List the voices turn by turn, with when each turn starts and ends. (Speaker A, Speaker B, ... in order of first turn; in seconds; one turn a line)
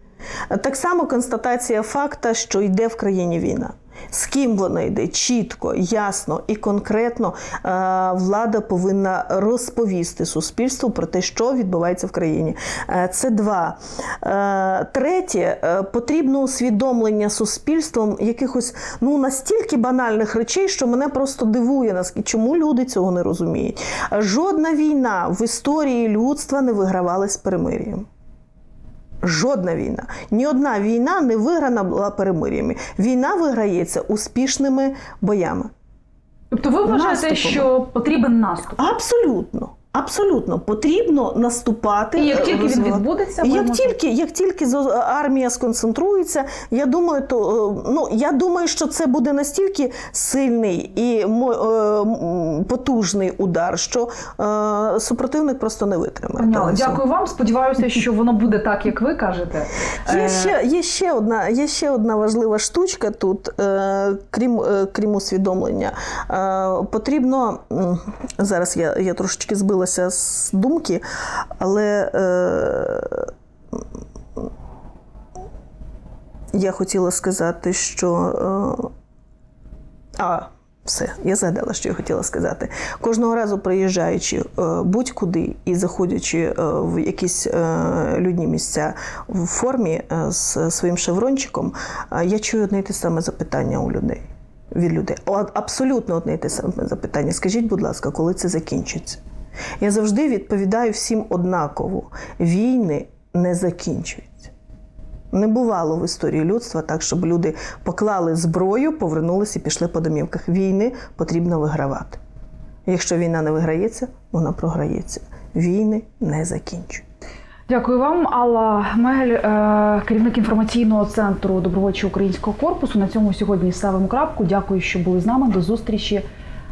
Speaker A: 0.5-28.1
Speaker A: 29.2-35.7
Speaker B: 36.5-38.8
Speaker A: 36.9-37.7
Speaker A: 38.8-57.0
Speaker B: 42.1-44.0
Speaker B: 56.4-60.5
Speaker A: 60.0-71.0
Speaker A: 71.6-73.3
Speaker A: 76.5-78.9
Speaker A: 80.2-94.2
Speaker A: 94.7-99.2
Speaker A: 99.8-104.5
Speaker A: 105.3-112.2
Speaker A: 112.8-117.0
Speaker B: 117.7-126.2